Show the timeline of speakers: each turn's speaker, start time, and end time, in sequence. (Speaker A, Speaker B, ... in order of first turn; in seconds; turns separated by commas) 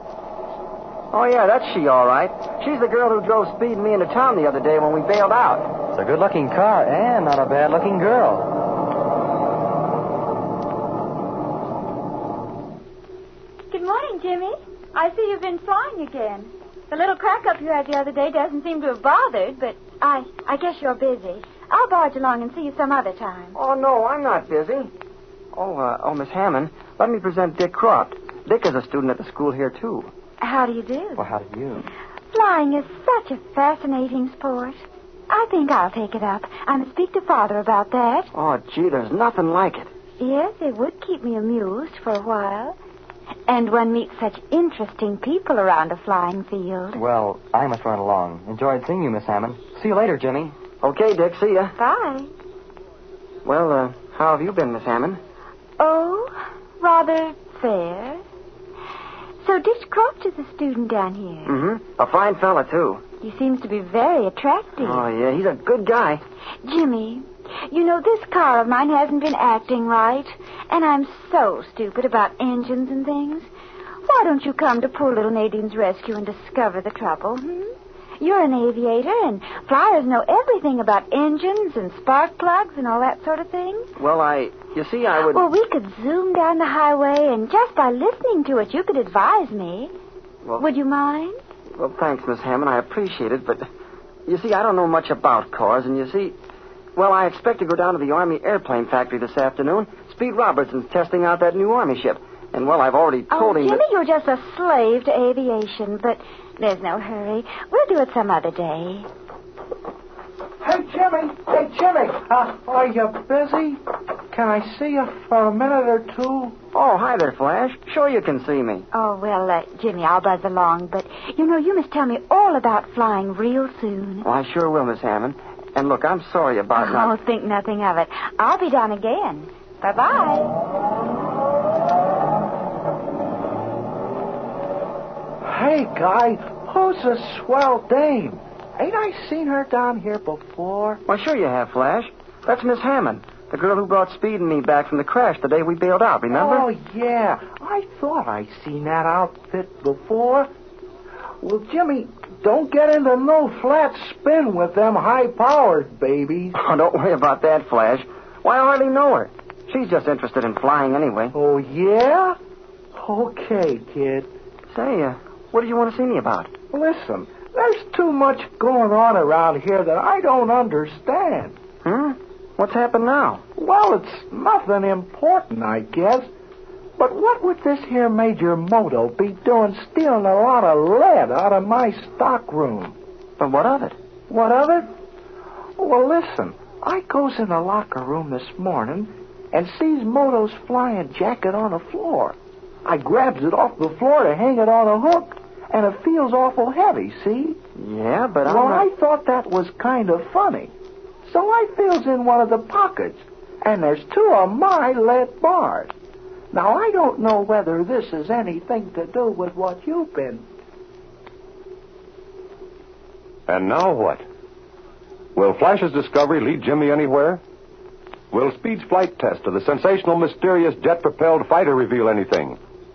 Speaker A: 1.1-5.7, Speaker B: 5.9-8.5, Speaker C: 13.7-23.6, Speaker A: 23.5-24.9, Speaker A: 25.5-30.1, Speaker C: 30.4-31.3, Speaker B: 31.2-31.8, Speaker C: 32.3-34.8, Speaker C: 35.3-38.3, Speaker A: 38.3-39.9, Speaker C: 40.2-42.8, Speaker C: 43.5-47.0, Speaker B: 47.0-50.6, Speaker A: 50.8-51.8, Speaker C: 51.8-52.3, Speaker A: 53.5-55.2, Speaker C: 55.8-58.2, Speaker C: 59.4-61.6, Speaker A: 61.5-63.0, Speaker C: 63.2-65.1, Speaker A: 64.8-66.2, Speaker C: 66.7-73.5, Speaker C: 74.1-77.7, Speaker C: 78.2-83.9, Speaker A: 84.0-85.5, Speaker C: 85.2-89.9, Speaker C: 90.6-91.3, Speaker A: 91.7-93.7, Speaker A: 94.3-96.4, Speaker A: 97.0-103.9, Speaker C: 103.3-109.1, Speaker D: 110.6-113.8, Speaker D: 114.3-116.5, Speaker A: 116.7-118.9, Speaker C: 118.9-124.3, Speaker A: 124.2-127.1, Speaker C: 126.8-130.5, Speaker D: 135.4-141.0, Speaker A: 141.1-146.7, Speaker D: 146.3-150.5, Speaker D: 151.4-156.6, Speaker A: 156.6-161.3, Speaker D: 161.3-162.4, Speaker D: 163.0-164.3, Speaker A: 164.7-166.5, Speaker D: 166.7-171.5, Speaker A: 171.8-173.4, Speaker D: 173.6-176.3, Speaker D: 177.0-183.0, Speaker A: 183.4-184.0, Speaker D: 184.3-184.9, Speaker D: 185.8-197.6, Speaker A: 197.8-198.9, Speaker D: 198.4-200.7, Speaker D: 201.3-205.9, Speaker D: 206.5-210.4, Speaker E: 213.5-214.2, Speaker E: 215.3-217.4, Speaker E: 218.3-222.6